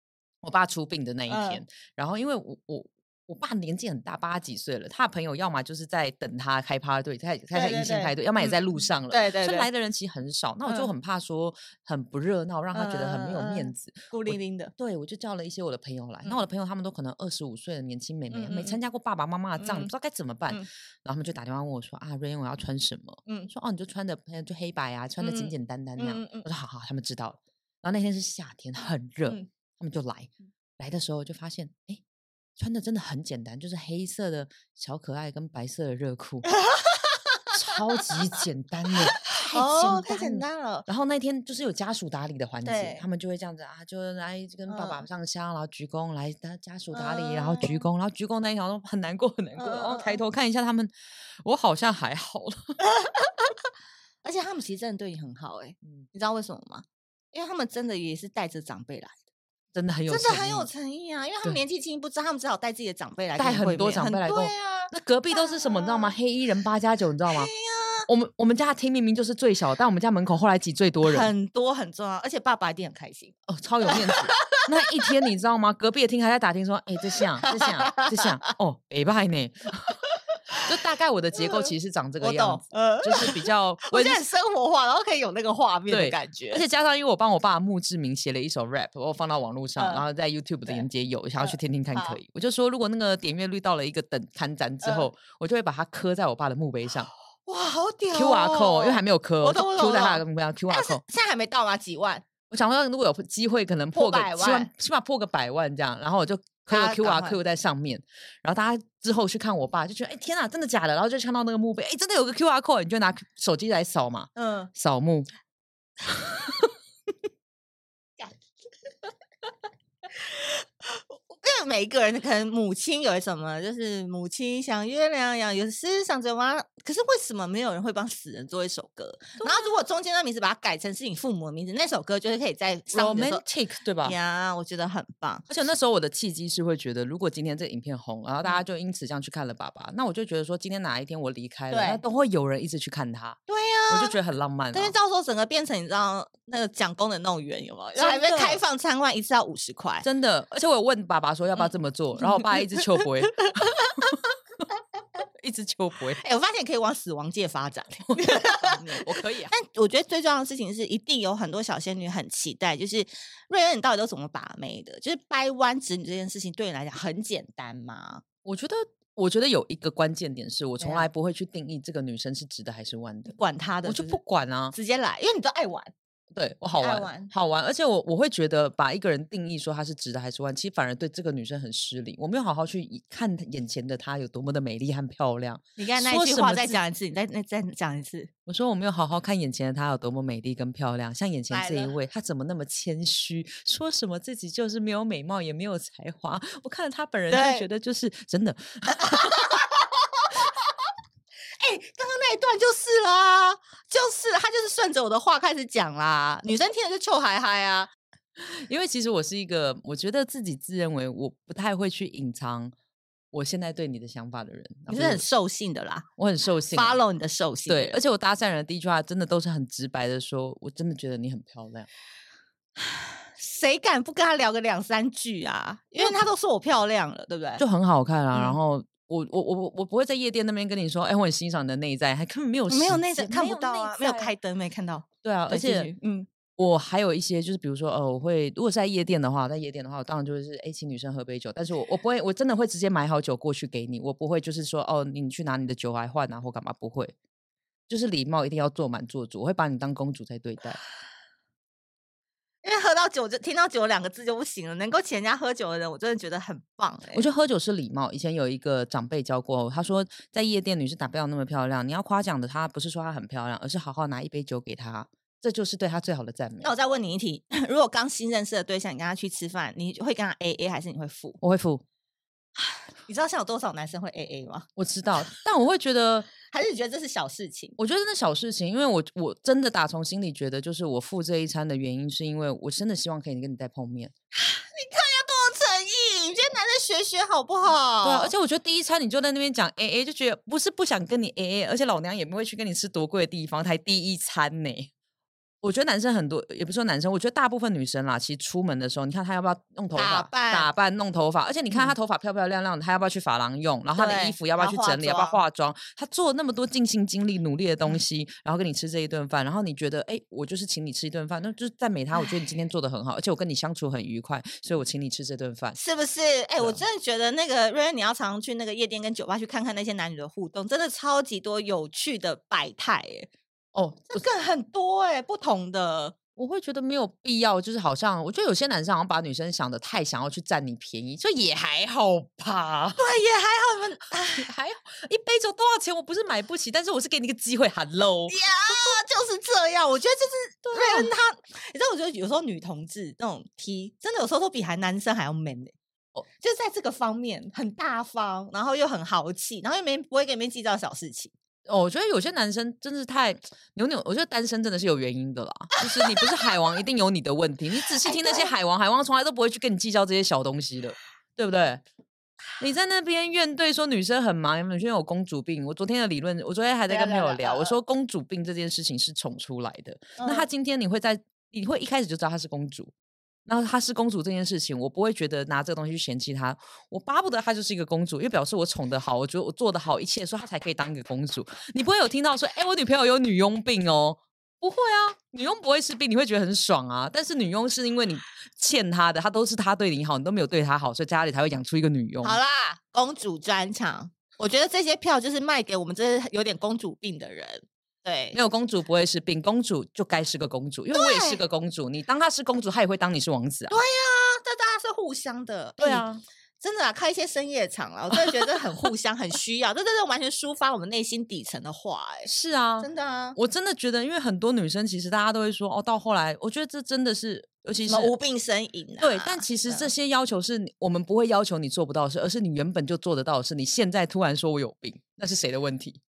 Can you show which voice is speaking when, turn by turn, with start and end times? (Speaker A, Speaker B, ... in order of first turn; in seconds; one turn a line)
Speaker A: 0.4-32.0
Speaker B: 1.3-1.6
Speaker B: 7.5-9.7
Speaker B: 10.7-10.9
Speaker B: 12.7-14.7
Speaker B: 18.3-18.8
Speaker B: 19.6-19.9
Speaker B: 25.2-26.5
Speaker A: 32.6-36.5
Speaker B: 36.5-38.4
Speaker A: 37.5-50.9
Speaker B: 39.1-40.9
Speaker B: 42.6-43.0
Speaker B: 44.7-45.0
Speaker B: 46.9-47.8
Speaker B: 49.6-50.2
Speaker A: 51.4-52.8
Speaker B: 52.8-53.5
Speaker B: 54.2-59.1
Speaker A: 59.7-60.7
Speaker B: 60.1-66.2
Speaker A: 63.4-67.5
Speaker B: 67.3-68.1
Speaker A: 68.1-71.3
Speaker B: 71.0-75.1
Speaker A: 73.5-80.0
Speaker B: 77.4-78.5
Speaker A: 80.6-84.2
Speaker B: 81.3-86.6
Speaker A: 85.9-97.1
Speaker B: 89.8-90.0
Speaker B: 91.4-92.2
Speaker B: 94.8-95.1
Speaker B: 97.5-102.2
Speaker A: 98.1-101.0
Speaker A: 102.5-115.3
Speaker B: 103.9-104.7
Speaker B: 106.7-107.4
Speaker B: 114.3-114.7
Speaker A: 116.1-116.7
Speaker B: 120.1-133.4
Speaker A: 129.4-129.7
Speaker A: 132.9-134.2
Speaker B: 134.0-135.5
Speaker A: 135.5-144.9
Speaker B: 141.7-142.0
Speaker B: 143.5-144.2
Speaker B: 144.7-150.1
Speaker A: 147.9-148.6
Speaker A: 150.0-154.2
Speaker B: 151.6-154.1
Speaker A: 155.4-156.2
Speaker B: 156.2-168.2
Speaker A: 158.1-159.5
Speaker A: 168.4-174.7
Speaker B: 170.8-171.1
Speaker B: 173.2-174.2
Speaker B: 174.7-175.9
Speaker A: 176.3-186.8
Speaker B: 176.8-177.3
Speaker B: 185.8-188.3
Speaker A: 188.5-199.4
Speaker B: 191.5-191.9
Speaker B: 197.3-197.7
Speaker B: 198.9-200.7
Speaker B: 201.6-207.9
Speaker A: 208.4-212.7
Speaker A: 213.3-215.2
Speaker B: 214.9-216.1
Speaker A: 216.2-217.0
Speaker B: 216.7-218.0
Speaker A: 217.7-221.9
Speaker B: 222.8-227.6
Speaker A: 227.6-234.3
Speaker B: 232.7-236.3
Speaker A: 235.2-235.9
Speaker A: 236.6-247.1
Speaker A: 247.9-250.8
Speaker B: 252.6-257.2
Speaker A: 257.1-266.7
Speaker B: 266.6-271.4
Speaker A: 271.4-271.8
Speaker B: 272.6-274.7
Speaker A: 274.8-276.3
Speaker B: 276.5-277.8
Speaker A: 277.8-284.1
Speaker B: 284.3-288.3
Speaker A: 288.0-294.9
Speaker A: 295.6-315.8
Speaker B: 299.9-300.7
Speaker B: 303.9-305.4
Speaker B: 315.8-323.3
Speaker A: 323.7-324.2
Speaker B: 324.1-326.1
Speaker A: 326.4-333.0
Speaker B: 333.0-334.5
Speaker A: 334.4-338.4
Speaker B: 338.3-345.8
Speaker A: 340.6-341.1
Speaker B: 346.4-351.3
Speaker A: 351.6-361.8
Speaker B: 357.9-358.5
Speaker A: 362.6-372.9
Speaker B: 366.9-367.8
Speaker B: 370.2-370.5
Speaker A: 373.4-392.4
Speaker B: 392.2-398.4
Speaker A: 398.3-403.7
Speaker B: 400.9-401.4
Speaker B: 403.7-406.1
Speaker A: 405.8-406.2
Speaker B: 406.6-413.4
Speaker A: 408.1-408.5
Speaker A: 412.3-418.1
Speaker B: 417.9-419.9
Speaker A: 419.0-426.0